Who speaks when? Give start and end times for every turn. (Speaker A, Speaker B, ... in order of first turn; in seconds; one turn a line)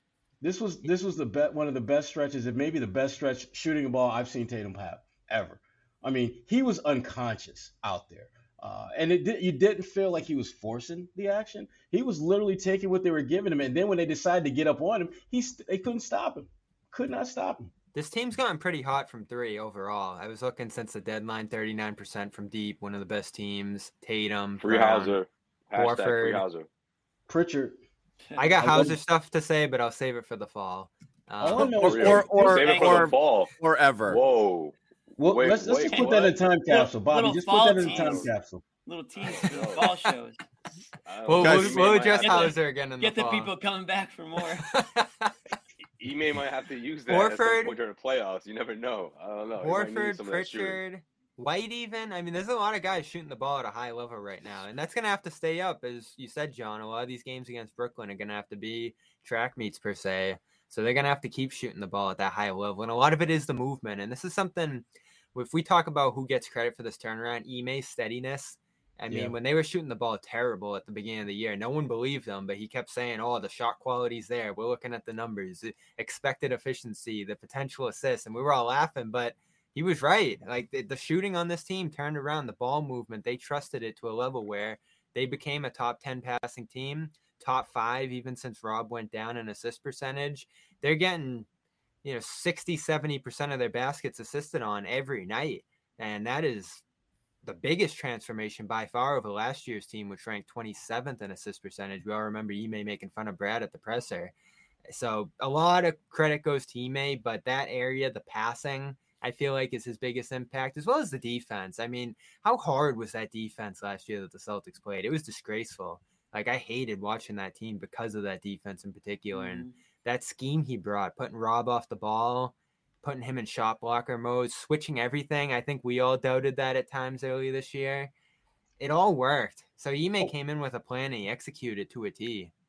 Speaker A: 0.4-17.7
Speaker B: 17.9-25.1
Speaker C: 24.6-26.7
Speaker B: 25.8-26.4
Speaker A: 27.3-27.8
Speaker D: 28.3-28.6
Speaker B: 28.4-31.8
Speaker A: 28.6-29.0
Speaker A: 31.4-32.6
Speaker E: 31.6-34.2
Speaker C: 31.6-33.5
Speaker D: 32.3-33.1
Speaker C: 34.1-36.3
Speaker A: 35.2-38.6
Speaker D: 35.9-38.3
Speaker C: 37.8-38.3
Speaker D: 38.8-40.4
Speaker C: 39.2-39.9
Speaker C: 41.0-42.5
Speaker B: 41.3-43.5
Speaker E: 41.4-41.9
Speaker D: 42.1-44.7
Speaker B: 44.5-45.4
Speaker C: 46.0-50.8
Speaker B: 47.1-47.7
Speaker B: 49.6-91.5
Speaker A: 69.1-69.3
Speaker B: 92.0-96.8
Speaker B: 97.4-104.3
Speaker B: 104.9-128.1
Speaker D: 119.3-119.8
Speaker B: 128.8-132.5